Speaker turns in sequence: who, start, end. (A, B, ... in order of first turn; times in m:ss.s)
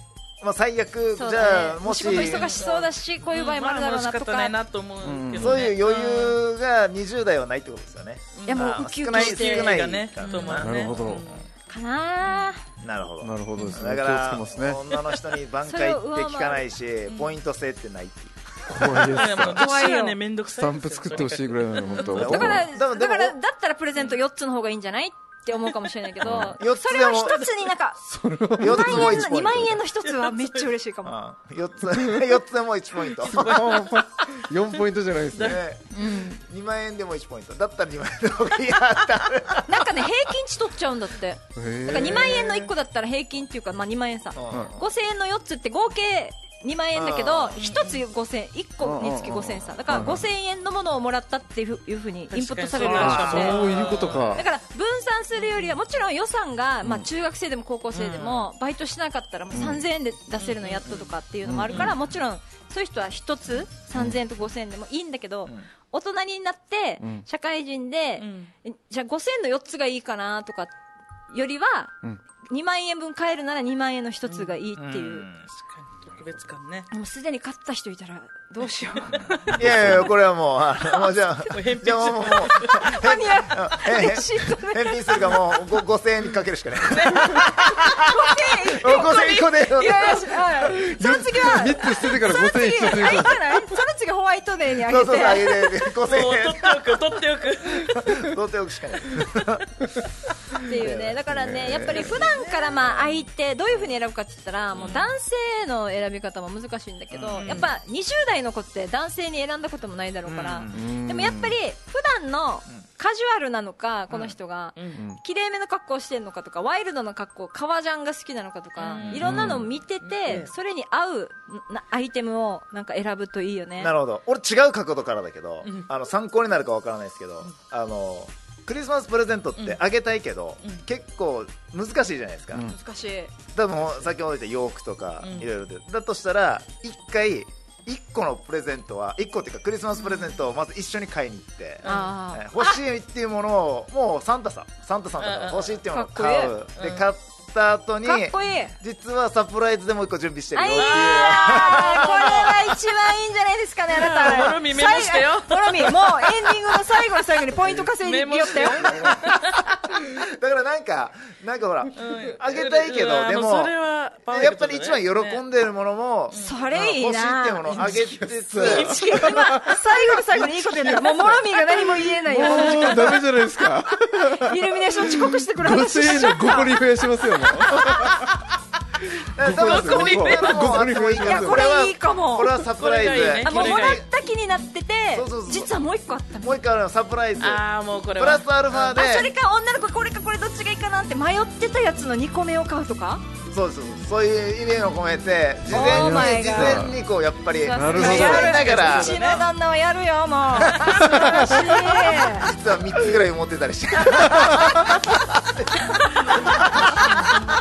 0:00.4-0:02.6 A
0:01.2-0:04.5 B
0:02.0-0:06.4 C
0:05.0-0:05.7 D
0:05.4-0:11.4 A
0:08.3-0:11.4 C
0:08.4-0:10.6 B
0:10.6-0:11.3 D
0:11.7-0:12.6 B
0:12.2-0:12.5 C
0:12.8-0:19.5 A
0:13.2-0:14.8 D
0:13.5-0:13.8 C
0:15.6-0:16.6 B
0:18.7-0:19.7 D
0:19.1-0:22.5 C
0:19.5-0:20.2 B
0:20.5-0:22.7 D
0:21.9-0:28.0 B
0:22.0-0:23.4 A
0:26.2-0:26.6 D
0:26.3-0:27.4 A
0:28.0-0:29.5 D
0:28.6-0:31.1 B
0:28.6-0:29.8 A
0:30.0-0:30.7 C
0:31.0-0:33.9 A
0:31.9-0:32.3 D
0:33.2-0:34.0 C
0:33.3-0:35.6 D
0:35.3-0:35.6 C
0:35.4-0:40.1 A
0:35.9-0:36.4 B
0:39.6-0:53.7 B
0:41.5-0:42.7 D
0:42.0-0:42.3 A
0:44.3-0:44.7 A
0:44.5-0:44.7 D
0:47.0-0:47.6 A
0:47.6-0:48.0 C
0:48.8-0:50.2 D
0:52.3-0:54.4 C
0:52.8-0:53.8 A
0:52.9-0:54.5 D
0:54.3-1:10.7 B
0:58.0-0:58.5 A
0:58.1-0:58.4 C
0:59.5-0:59.8 D
1:00.4-1:01.1 C
1:01.4-1:02.0 D
1:01.7-1:02.0 C
1:08.2-1:08.5 C
1:11.3-1:11.9 B
1:12.5-1:15.3 B
1:14.2-1:14.5 C
1:14.8-1:15.4 A
1:15.5-1:16.9 C
1:16.9-1:20.0 B
1:19.2-1:30.4 A
1:21.5-1:23.0 C
1:22.6-1:25.4 B
1:26.9-1:27.4 C
1:27.7-1:35.7 B
1:30.5-1:33.6 D
1:34.8-1:37.0 A
1:36.0-1:38.3 C
1:37.9-1:39.9 A
1:40.6-1:42.1 A
1:40.6-2:03.9 B
1:41.3-1:42.2 D
1:42.1-1:42.9 C
1:44.7-1:45.1 C
1:47.1-1:47.6 A
1:47.4-1:47.7 C
1:50.2-1:50.9 A
1:50.7-1:51.6 D
1:54.8-1:55.0 C
1:54.9-1:55.2 D
1:58.8-2:00.5 C
1:59.0-1:59.4 A
1:59.2-1:59.6 D
2:03.8-2:12.7 A
2:12.6-2:13.3 B
2:13.5-2:32.6 A
2:15.2-2:15.5 C
2:21.8-2:22.8 B
2:25.2-2:25.8 C
2:25.9-2:26.6 B
2:26.8-2:27.1 C
2:28.0-2:28.7 B
2:30.5-2:39.1 B
2:30.7-2:32.7 C
2:33.9-2:37.4 C
2:34.2-2:34.6 A
2:38.0-2:39.6 C
2:38.8-2:39.3 D
2:38.8-2:39.3 A
2:39.9-2:43.7 A
2:41.9-2:45.4 C
2:44.3-2:49.2 A
2:46.3-2:46.5 C
2:46.3-2:53.2 B
2:47.8-2:58.2 D
2:48.6-2:49.5 C
2:52.5-2:53.1 C
2:54.1-2:56.8 B
2:57.4-2:58.0 B
2:59.0-3:01.6 D
2:59.3-3:04.1 A
2:59.4-3:01.0 C
3:01.1-3:02.6 B
3:02.6-3:04.0 C
3:03.4-3:06.6 B
3:05.1-3:05.7 A
3:06.4-3:07.6 A
3:07.4-3:08.4 C
3:08.2-3:09.3 A
3:08.7-3:13.2 B
3:13.5-3:19.4 A
3:15.7-3:17.0 D
3:15.7-3:16.8 B
3:17.5-3:22.5 B
3:17.7-3:18.5 D
3:17.9-3:19.4 C
3:20.6-3:27.5 A
3:20.8-3:21.6 C
3:21.0-3:21.5 D
3:24.1-3:24.8 D
3:26.2-3:26.6 C